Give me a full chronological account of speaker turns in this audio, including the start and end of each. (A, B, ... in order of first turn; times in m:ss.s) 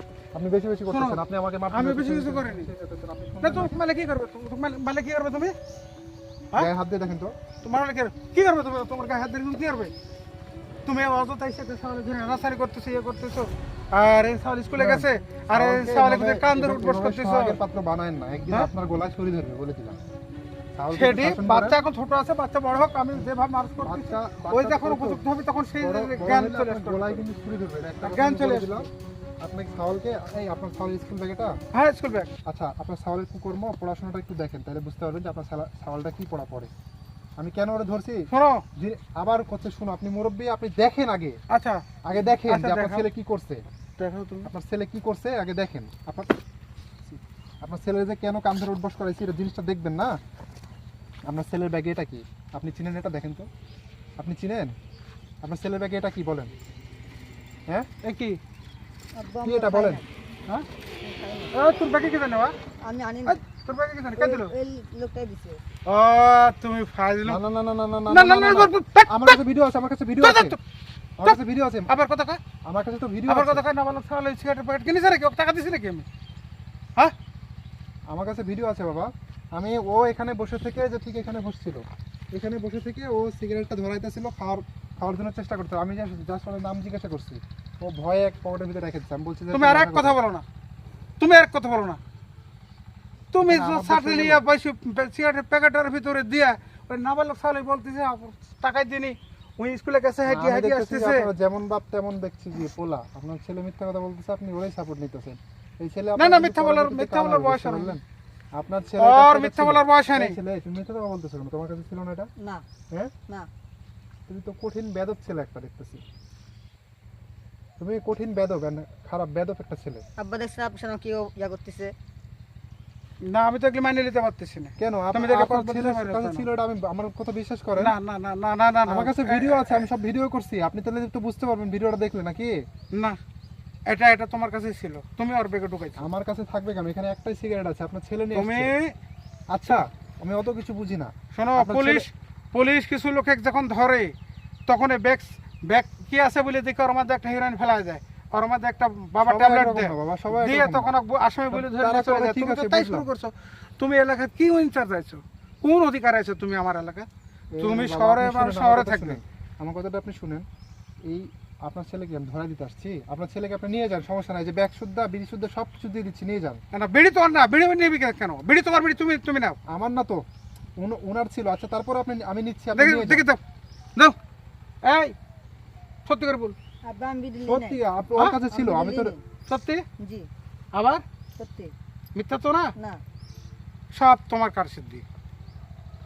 0:00.3-0:03.8 A
0:00.9-0:02.7 B
0:03.4-0:05.6 B
0:06.6-0:07.4 A
0:07.6-0:09.9 B
0:10.9-0:17.6 B
0:14.7-0:20.0 A
0:20.8-0:21.8 A
0:20.9-0:27.2 B
0:23.8-0:25.2 A
0:25.8-0:28.9 A
0:28.0-0:28.9 B
0:29.4-0:31.6 A
0:31.7-0:32.3 B
0:32.5-0:36.7 A
0:37.4-0:41.4 A
0:38.3-0:38.6 B
0:41.5-0:43.1 B
0:42.0-0:43.6 A
0:44.0-0:44.5 B
0:44.4-0:46.3 A
0:47.1-0:50.2 A
0:51.3-0:53.5 A
0:54.2-0:54.7 A
0:55.4-0:56.5 A
0:58.0-0:58.4 B
0:59.2-1:00.1 C
0:59.4-1:00.0 A
1:01.0-1:01.6 C
1:01.5-1:02.6 B
1:02.8-1:03.4 C
1:03.3-1:04.5 B
1:04.2-1:05.6 C
1:05.9-1:07.4 B
1:07.2-1:10.6 A
1:08.1-1:09.4 B
1:10.2-1:10.6 B
1:11.2-1:11.9 A
1:11.2-1:12.4 B
1:12.6-1:13.6 A
1:13.3-1:16.1 B
1:18.1-1:30.2 A
1:29.5-1:30.4 B
1:31.2-1:32.0 B
1:33.3-1:41.3 B
1:33.4-1:34.4 A
1:40.2-1:48.0 A
1:46.2-1:48.0 B
1:48.6-1:52.3 A
1:49.0-1:50.4 B
1:52.4-1:52.6 C
1:54.3-1:56.0 A
1:57.8-2:00.0 A
2:00.2-2:01.9 C
2:03.3-2:06.5 B
2:04.8-2:08.0 A
2:07.8-2:09.9 B
2:08.9-2:12.5 A
2:13.9-2:16.1 B
2:16.0-2:18.7 A
2:18.3-2:18.9 B
2:19.5-2:22.1 A
2:21.3-2:24.1 B
2:24.7-2:37.1 B
2:29.2-2:31.0 A
2:31.5-2:33.1 A
2:37.5-2:40.5 A
2:37.6-2:39.2 B
2:41.0-2:46.6 A
2:46.7-2:49.6 B
2:49.7-2:50.2 A
2:50.8-2:53.3 A
2:52.8-2:53.4 B
2:54.8-2:55.2 B
2:56.1-2:56.6 B
2:56.8-2:57.8 C
2:57.5-2:59.1 A
2:58.5-2:59.2 C
2:59.5-2:59.8 B
3:00.0-3:00.3 C
3:00.7-3:01.0 B
3:01.4-3:01.7 C
3:02.2-3:02.7 B
3:03.9-3:05.0 B